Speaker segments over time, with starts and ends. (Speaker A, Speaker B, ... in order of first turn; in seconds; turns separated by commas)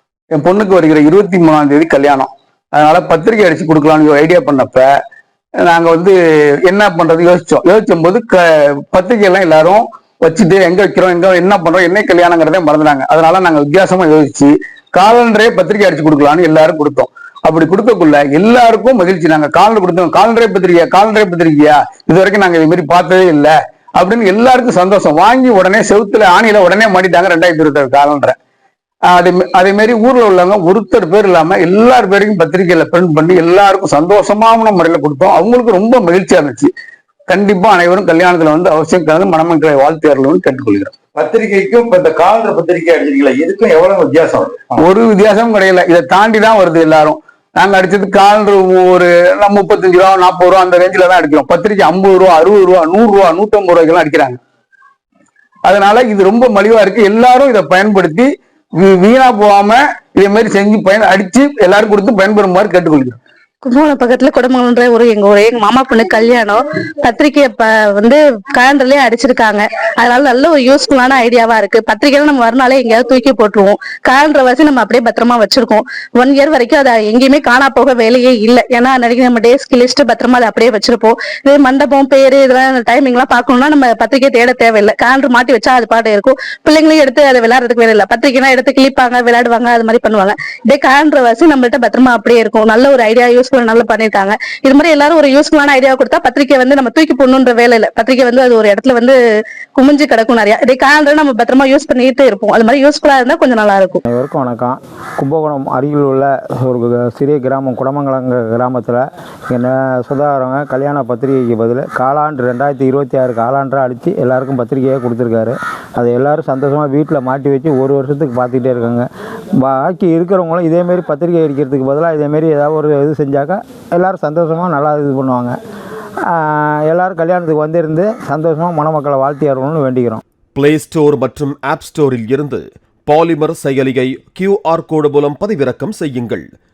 Speaker A: 0.3-4.9, Speaker A: 5.6-28.4, Speaker A: 29.1-36.7, Speaker A: 37.3-41.0, Speaker B: 41.1-44.8, Speaker A: 44.8-54.4, Speaker A: 55.6-63.2, Speaker C: 63.6-99.2, Speaker C: 99.8-104.0, Speaker D: 104.1-119.1, Speaker D: 119.6-125.6, Speaker D: 126.3-130.2, Speaker E: 130.6-136.5